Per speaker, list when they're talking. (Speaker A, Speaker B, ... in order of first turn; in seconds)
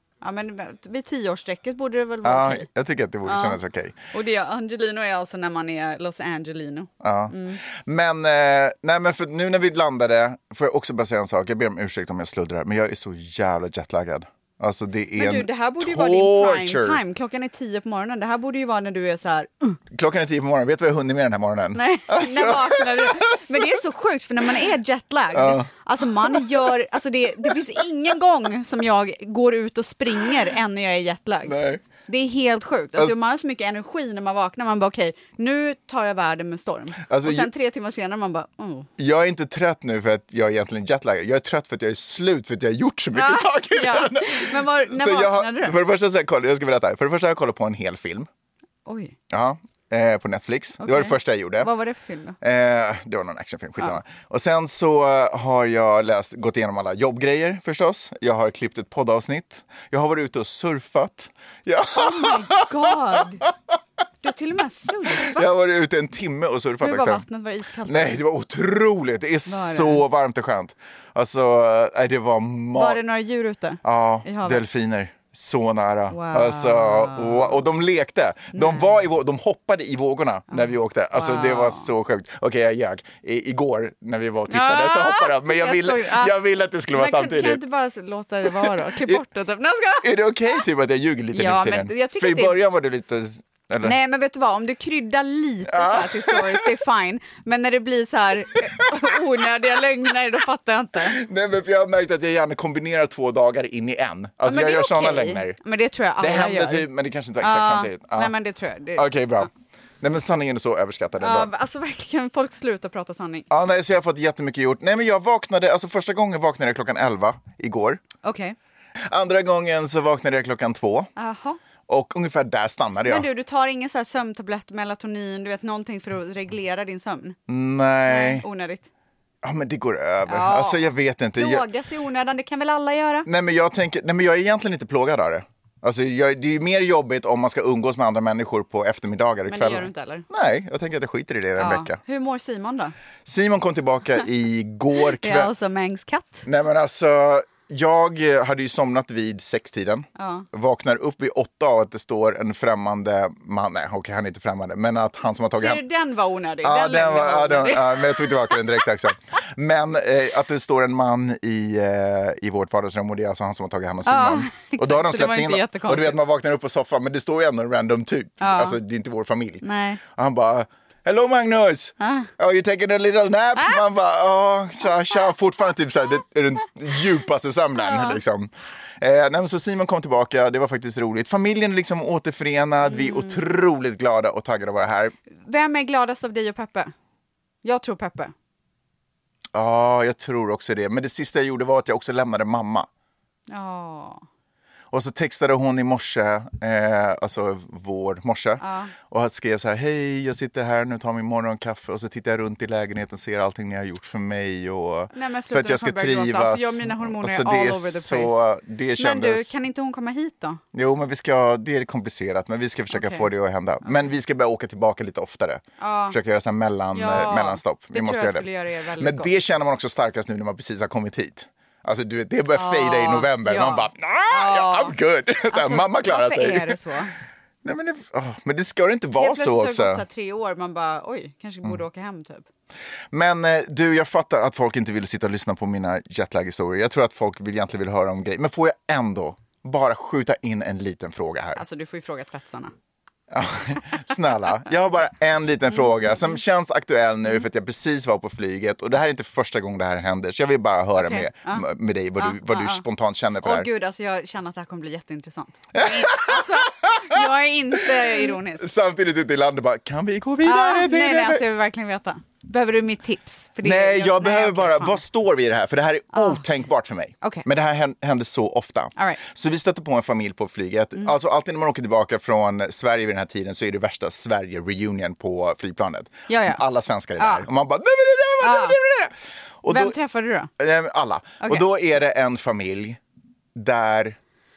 Speaker A: 0.2-2.7, 3.2-3.6, 4.1-7.6, 15.2-19.8, 21.7-38.9, 43.1-45.8, 48.9-49.1, 50.8-52.4, 61.9-63.5, 64.2-65.5, 66.8-68.2, 69.5-70.0, 72.8-74.6, 76.1-77.6, 78.5-79.0, 80.5-81.9, 84.5-86.3, 86.9-90.1, 91.3-92.6, 93.8-101.2, 104.4-106.9, 107.4-109.4, 111.2-113.5, 118.2-118.5, 121.2-121.6, 123.0-127.4, 128.1-128.9, 130.2-133.3, 139.5-140.3, 141.6-142.9, 145.2-146.4, 150.2-150.5, 155.6-158.8, 164.0-166.2, 168.4-168.8, 169.6-170.0, 172.0-172.3, 177.8-178.2, 182.8-183.4, 185.3-186.9, 187.6-188.3, 193.5-194.2, 198.6-198.9, 205.1-208.4, 209.0-210.6, 212.9-213.3, 215.8-216.2, 216.9-219.3, 222.5-225.0, 225.5-227.1, 229.2-232.4, 241.6-242.7, 251.0-252.8, 253.4-258.7, 260.4-265.0, 266.1-266.4, 268.9-269.2, 276.3-276.6, 277.2-277.4, 278.4-278.8, 279.7-280.5, 281.4-281.6
Speaker B: 2.2-4.0, 7.0-17.0, 19.9-23.8, 25.3-26.6, 31.4-31.8, 37.0-37.5, 39.0-48.3, 49.3-51.7, 52.4-63.5, 65.1-67.2, 67.8-73.0, 73.8-87.6, 88.5-89.2, 90.0-94.0, 95.7-96.8, 98.7-99.0, 101.1-105.6, 106.2-108.3, 109.0-109.5, 110.0-111.5, 113.5-118.0, 119.0-121.1, 121.9-123.3, 127.5-128.4, 129.4-131.7, 133.2-142.0, 143.2-145.5, 146.4-155.8, 156.6-185.1, 189.5-192.9, 194.9-209.5, 210.7-226.8, 227.6-230.0, 233.1-241.6, 243.3-253.7, 255.7-257.2, 257.8-261.4, 263.6-279.9, 280.6-283.0, 283.5-284.2